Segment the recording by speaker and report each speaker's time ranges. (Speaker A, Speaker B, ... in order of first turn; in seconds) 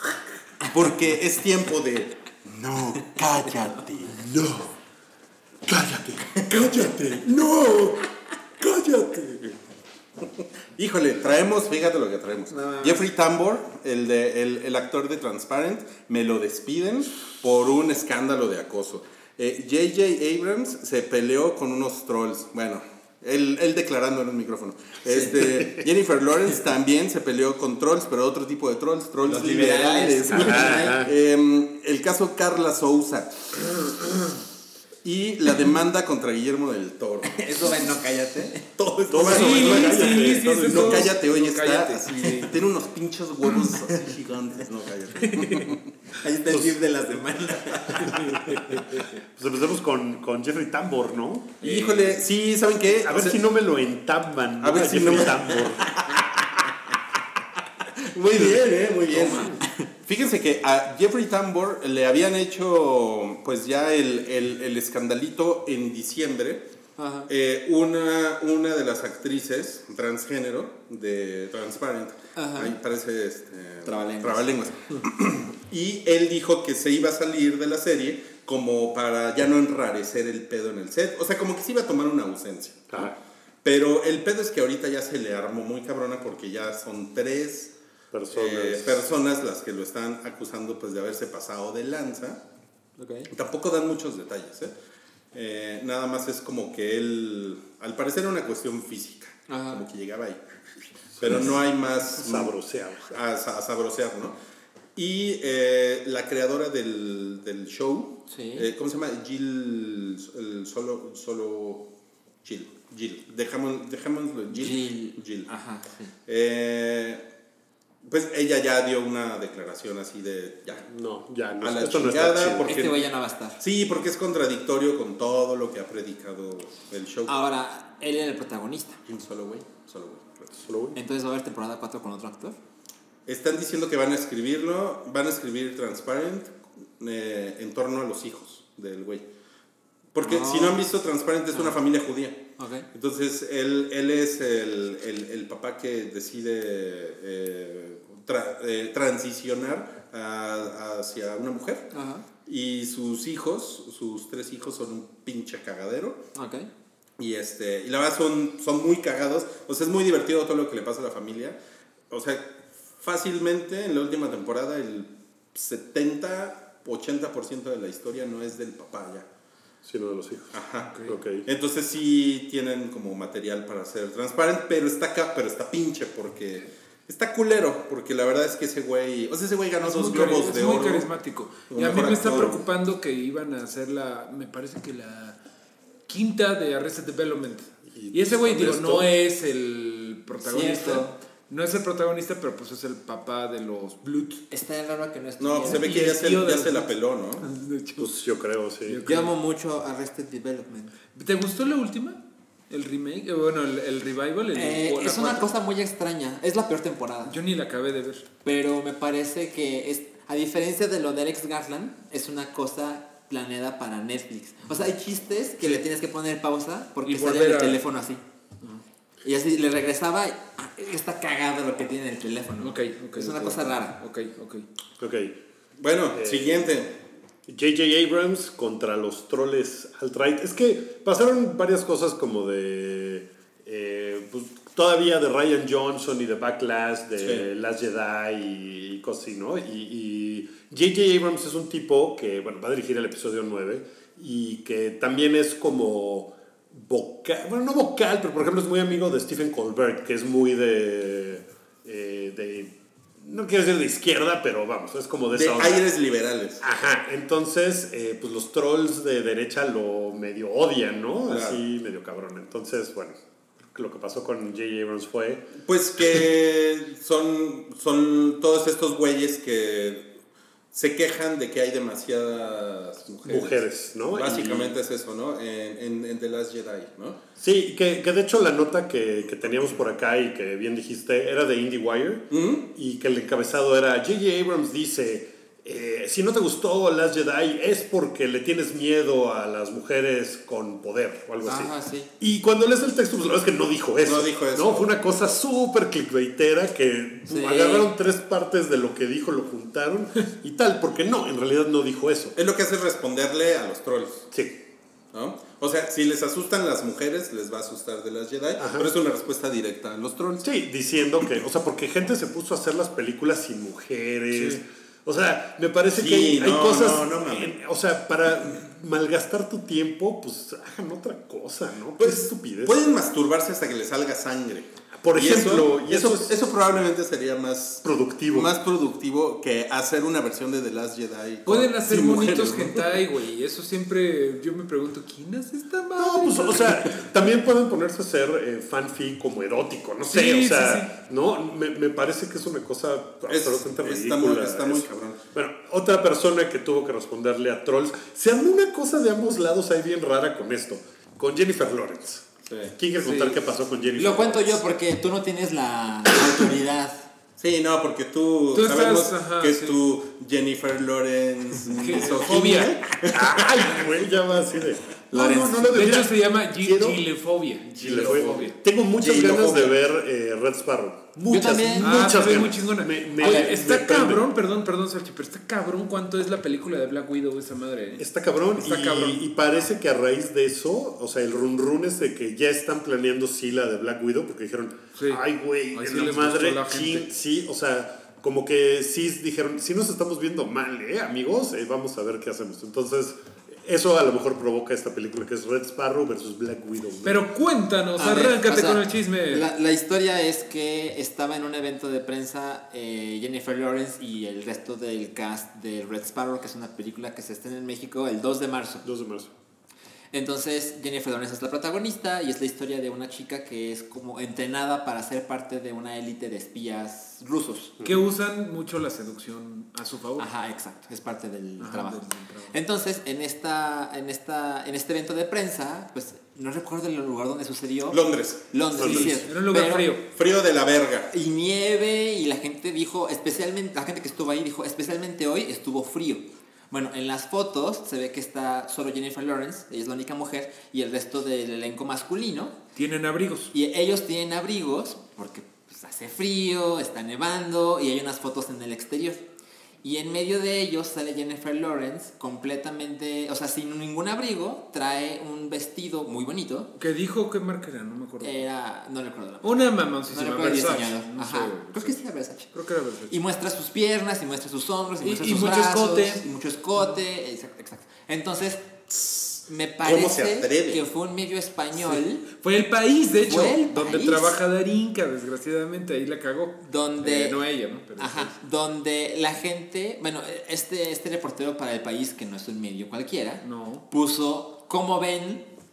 Speaker A: 0.6-4.3, 6.4-8.0, 8.6-9.6, 10.4-34.3, 35.0-37.7, 38.8-46.7, 47.5-47.8, 51.6-53.4, 54.6-56.9, 57.8-66.6, 67.3-83.0, 83.6-87.7, 88.3-92.4, 93.3-94.7, 95.3-100.4, 101.2-102.5, 103.0-104.3, 105.0-111.9, 112.4-115.5, 116.2-117.2, 118.0-120.8, 121.6-123.0, 123.6-127.3, 129.1-130.5, 133.2-139.2, 140.1-151.8, 152.4-156.2, 157.2-161.6, 162.1-169.2, 170.5-181.1, 181.7-182.6, 195.4-197.4, 225.8-226.9, 237.2-237.4, 255.3-256.6, 261.3-261.6, 265.6-270.1, 270.7-273.6, 274.1-277.2, 282.3-282.6, 294.0-295.2, 302.3-304.2, 305.1-310.4, 315.9-317.5, 322.0-333.0, 343.3-345.2, 352.4-352.7, 357.4-363.1, 369.0-369.8, 427.9-428.4, 430.1-431.1, 468.9-470.8
Speaker B: 4.1-4.7, 5.7-7.2, 25.5-25.8, 30.3-31.1, 39.1-41.1, 46.5-46.8, 48.1-51.6, 52.9-55.9, 59.2-59.5, 82.9-83.2, 88.1-89.1, 101.2-101.5, 102.2-103.1, 120.8-122.8, 130.5-131.0, 169.8-171.4, 182.3-182.6, 187.9-189.1, 198.0-199.0, 225.0-225.3, 226.1-226.7, 227.5-255.8, 256.6-265.4, 273.2-274.8, 277.4-302.3, 304.3-304.6, 308.6-308.9, 310.4-322.9, 325.0-326.3, 327.8-328.5, 336.0-354.6, 363.1-367.0, 367.8-374.2, 378.0-397.2, 408.8-409.3, 428.8-429.1
Speaker C: 12.5-13.0, 29.2-31.1, 37.2-39.4, 46.2-48.2, 67.0-67.3, 72.3-72.7, 73.8-74.5, 93.0-93.3, 99.5-99.8, 108.3-108.7, 114.5-116.1, 122.7-123.6, 127.3-129.0, 130.9-132.6, 140.2-140.8, 141.5-141.8, 142.6-142.9, 151.9-152.2, 156.3-156.7, 190.4-191.2, 194.5-195.8, 199.0-200.9, 204.5-207.3, 208.4-218.2, 219.2-223.9, 291.4-292.1, 297.3-297.9, 354.0-357.1, 365.1-365.7, 371.2-372.1, 373.2-373.5, 398.0-408.8, 410.1-417.8, 420.2-429.9, 431.1-442.6, 443.5-449.2, 449.8-456.7, 458.2-462.5, 463.1-468.7, 469.4-472.3, 473.2-474.3, 476.6-477.4, 478.0-485.5
Speaker D: 39.3-42.6, 48.0-49.1, 51.6-52.2, 179.8-185.4, 186.1-194.4, 195.6-198.1, 198.8-199.3, 201.1-202.2, 202.7-205.5, 207.2-208.2, 217.1-217.8, 222.6-224.6, 331.4-337.0, 340.1-340.9, 353.0-353.4, 358.5-359.8, 361.6-362.8, 365.7-368.6, 371.8-378.0, 378.6-379.2, 384.9-385.2, 385.7-387.1, 397.0-399.4, 417.8-420.3, 421.6-422.5, 428.8-430.0, 442.8-443.5, 456.8-458.4, 459.4-462.0, 462.5-463.1, 465.0-466.2, 471.9-478.3, 483.4-483.9